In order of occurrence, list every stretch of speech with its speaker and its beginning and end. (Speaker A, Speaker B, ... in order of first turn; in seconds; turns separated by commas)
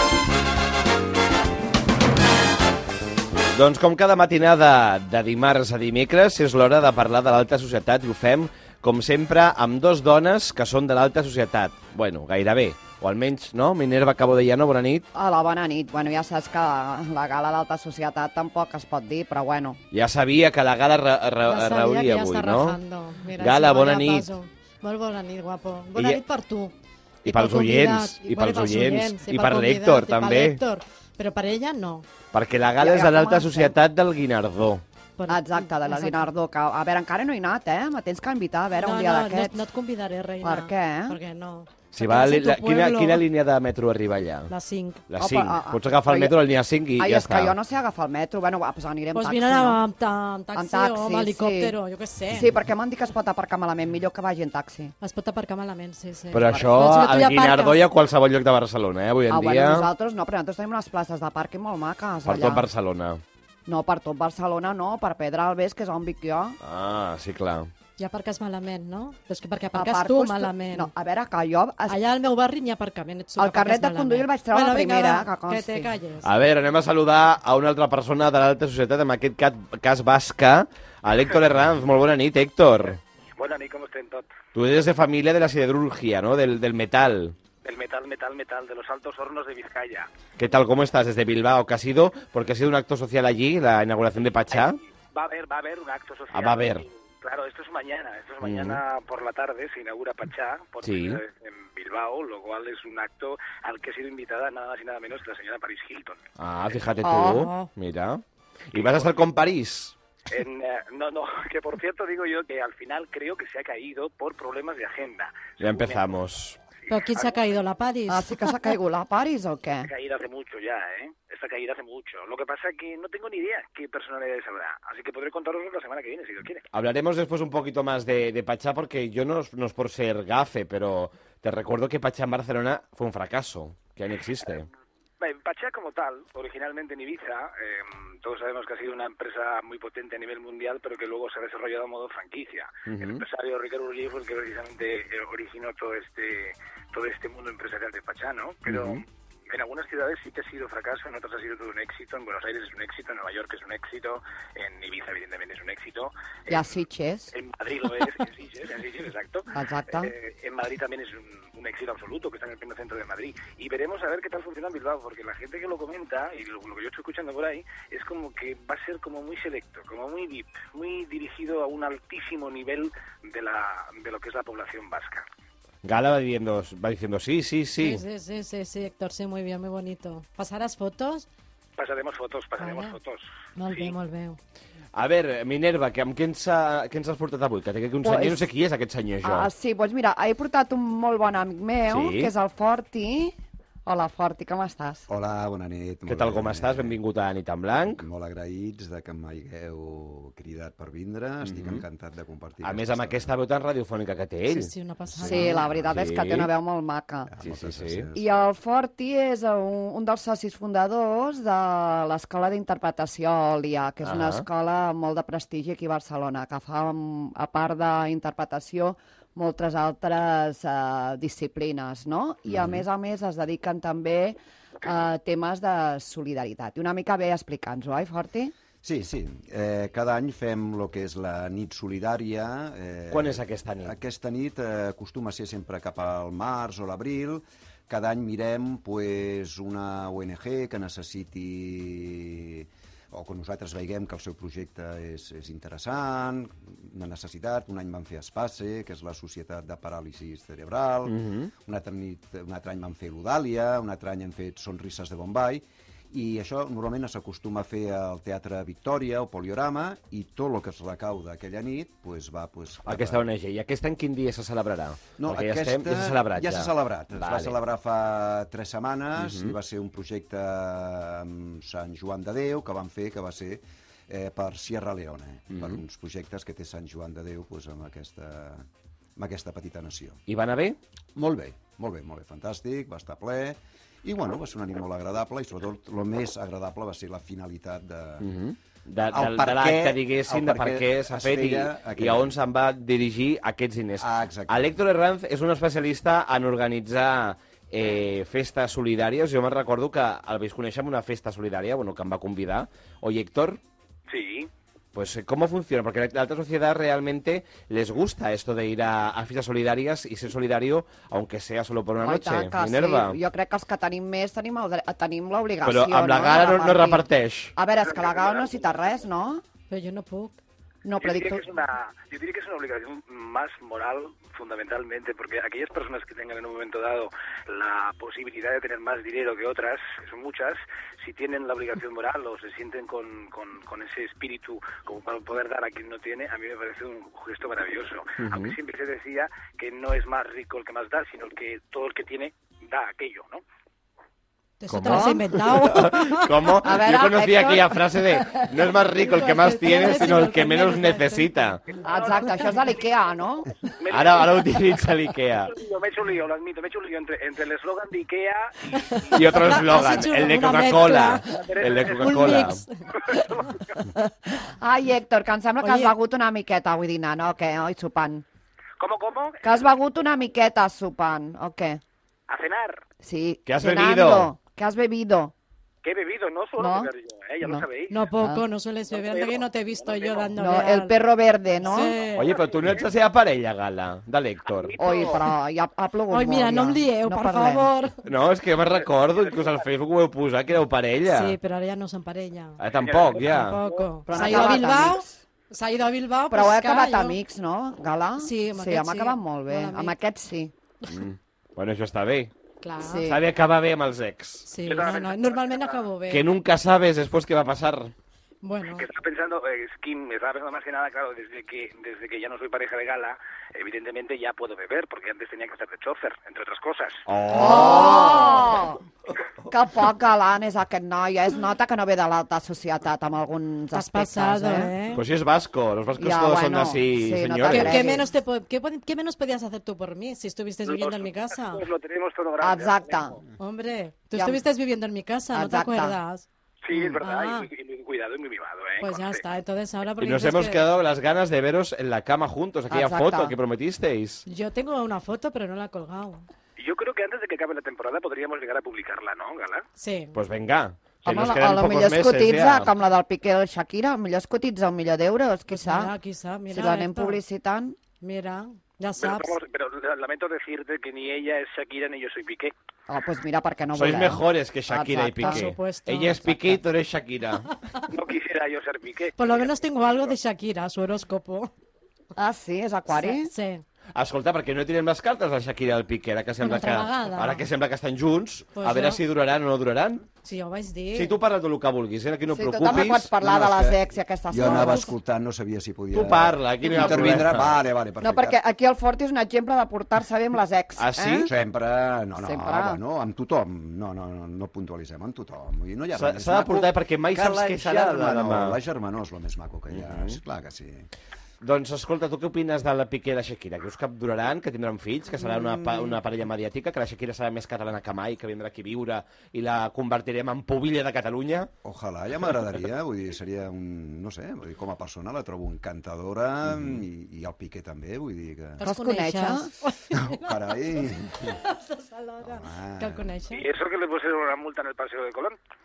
Speaker A: 3.5-15.1, Speaker B: 15.1-19.8, Speaker A: 19.9-22.8, Speaker C: 21.5-26.7, Speaker A: 23.4-24.3, Speaker A: 25.9-26.2, Speaker A: 27.2-30.6, Speaker C: 27.2-32.1, Speaker A: 32.3-34.8, Speaker B: 32.8-33.7, Speaker C: 35.2-36.3, Speaker B: 35.3-39.6, Speaker C: 38.8-43.2, Speaker B: 40.4-41.2, Speaker A: 41.9-44.5, Speaker C: 44.5-45.0, Speaker A: 45.1-47.6, Speaker B: 45.2-46.4, Speaker B: 47.0-49.8, Speaker C: 49.1-52.5, Speaker B: 50.5-51.8, Speaker B: 52.3-54.9, Speaker C: 55.0-57.8, Speaker A: 56.3-59.9, Speaker B: 59.3-62.7, Speaker A: 62.2-63.2, Speaker B: 63.7-66.6, Speaker A: 66.6-67.7, Speaker C: 68.0-70.9, Speaker B: 69.8-72.0, Speaker C: 71.9-76.3, Speaker B: 73.4-75.9, Speaker A: 76.2-83.0, Speaker D: 83.4-84.3, Speaker A: 84.5-87.3, Speaker D: 87.6-90.1, Speaker A: 90.4-94.8, Speaker D: 94.5-106.3, Speaker A: 96.3-96.8, Speaker A: 98.4-98.8, Speaker A: 100.8-101.2, Speaker A: 106.4-110.0, Speaker B: 107.0-107.5, Speaker C: 107.2-107.7, Speaker D: 108.7-109.2, Speaker D: 110.3-116.1, Speaker A: 115.6-116.6, Speaker D: 116.9-117.4, Speaker C: 116.9-118.7, Speaker B: 118.1-119.9, Speaker D: 119.8-126.7, Speaker A: 126.7-134.7, Speaker D: 135.2-156.7, Speaker A: 142.9-143.3, Speaker A: 148.7-149.0, Speaker B: 156.5-157.3, Speaker D: 157.3-175.2, Speaker B: 159.5-160.1, Speaker A: 175.8-178.0, Speaker C: 177.8-181.3, Speaker D: 181.8-183.9, Speaker C: 182.6-183.0, Speaker C: 183.6-184.4, Speaker A: 184.9-189.5, Speaker B: 188.0-188.5, Speaker B: 189.2-193.3, Speaker A: 191.9-192.3, Speaker B: 193.9-195.1, Speaker E: 195.1-197.0, Speaker A: 196.1-198.1, Speaker E: 197.9-203.3, Speaker A: 201.4-201.8, Speaker A: 202.6-204.7, Speaker C: 204.5-205.7, Speaker E: 205.1-206.0, Speaker B: 205.2-207.3, Speaker A: 205.9-206.5, Speaker E: 207.3-208.3, Speaker A: 207.4-208.1, Speaker B: 208.1-228.5, Speaker A: 214.0-214.5, Speaker E: 228.8-263.2, Speaker A: 233.1-233.9, Speaker A: 251.1-251.5, Speaker A: 262.9-267.6, Speaker E: 265.2-280.2, Speaker A: 269.2-269.5, Speaker A: 275.5-275.8, Speaker A: 280.3-280.8, Speaker E: 281.2-288.3, Speaker A: 288.2-303.6, Speaker E: 289.1-292.4, Speaker E: 294.0-294.7, Speaker D: 304.1-304.5, Speaker A: 304.9-313.2, Speaker B: 312.0-319.4, Speaker A: 315.6-317.6, Speaker D: 317.8-319.1, Speaker C: 319.7-320.4, Speaker B: 320.8-321.4, Speaker D: 321.0-343.4, Speaker A: 338.2-338.6, Speaker C: 344.6-346.6, Speaker A: 344.7-351.6, Speaker B: 346.6-347.8, Speaker C: 348.3-351.4, Speaker D: 351.7-354.7, Speaker B: 351.8-353.5, Speaker A: 353.9-355.6, Speaker D: 355.4-359.5, Speaker C: 358.7-363.6, Speaker A: 359.1-362.6, Speaker D: 361.2-362.4, Speaker D: 363.0-363.6, Speaker B: 364.3-368.2, Speaker C: 365.6-366.0, Speaker D: 368.8-369.4, Speaker B: 369.4-371.8, Speaker D: 372.3-372.8, Speaker B: 373.0-375.3, Speaker A: 373.5-374.3, Speaker D: 375.8-377.9, Speaker B: 376.6-376.9, Speaker C: 377.9-381.0, Speaker D: 378.9-380.4, Speaker B: 380.4-382.0, Speaker C: 381.6-382.3, Speaker D: 381.7-382.9, Speaker A: 382.1-384.8, Speaker D: 384.5-385.3, Speaker B: 384.8-387.7, Speaker C: 386.1-388.1, Speaker A: 388.1-391.4, Speaker D: 388.9-389.6, Speaker C: 391.1-392.6, Speaker A: 392.6-393.6, Speaker D: 392.7-394.6, Speaker C: 393.2-397.2, Speaker B: 394.1-395.2, Speaker B: 396.3-400.5, Speaker C: 398.2-399.9, Speaker A: 400.9-402.3, Speaker C: 402.6-403.1, Speaker B: 402.8-403.2, Speaker A: 403.0-404.5, Speaker C: 404.4-406.3, Speaker D: 404.6-405.9, Speaker A: 406.1-407.9, Speaker C: 408.4-408.9, Speaker D: 408.8-417.0, Speaker A: 417.1-418.6, Speaker B: 417.3-418.8, Speaker C: 417.3-418.5, Speaker B: 419.5-424.8, Speaker C: 423.7-425.0, Speaker A: 424.9-427.9, Speaker B: 426.0-428.1, Speaker C: 427.5-431.6, Speaker D: 430.6-433.2, Speaker B: 432.4-433.2, Speaker C: 433.4-436.3, Speaker B: 434.1-434.4, Speaker B: 435.3-436.0, Speaker D: 436.6-439.2, Speaker C: 437.0-437.5, Speaker C: 438.8-440.6, Speaker A: 440.0-444.2, Speaker B: 442.7-443.4, Speaker C: 444.3-446.3, Speaker D: 446.6-449.6, Speaker C: 449.8-450.2, Speaker A: 450.1-452.7, Speaker B: 451.0-455.9, Speaker C: 455.5-457.2, Speaker B: 456.5-457.8, Speaker C: 458.0-459.4, Speaker D: 459.0-462.5, Speaker B: 462.9-465.5, Speaker A: 463.7-467.6, Speaker C: 465.2-466.6, Speaker D: 467.9-470.1, Speaker C: 469.2-471.5, Speaker B: 472.2-473.3, Speaker C: 472.9-473.6, Speaker A: 473.9-480.1, Speaker C: 476.4-477.4, Speaker C: 478.6-479.0, Speaker C: 480.2-481.1, Speaker A: 480.9-483.1, Speaker B: 482.3-484.9, Speaker E: 482.6-488.4, Speaker C: 484.4-484.9, Speaker A: 485.9-487.6, Speaker B: 486.8-487.1, Speaker B: 488.0-491.3, Speaker A: 490.8-491.3, Speaker E: 491.3-500.9, Speaker B: 492.2-492.8, Speaker A: 495.9-498.6, Speaker A: 499.7-500.2, Speaker A: 501.4-511.5, Speaker E: 511.6-518.6, Speaker C: 518.6-523.5, Speaker B: 518.6-519.5, Speaker E: 519.9-521.4, Speaker E: 522.2-523.1, Speaker D: 523.3-525.4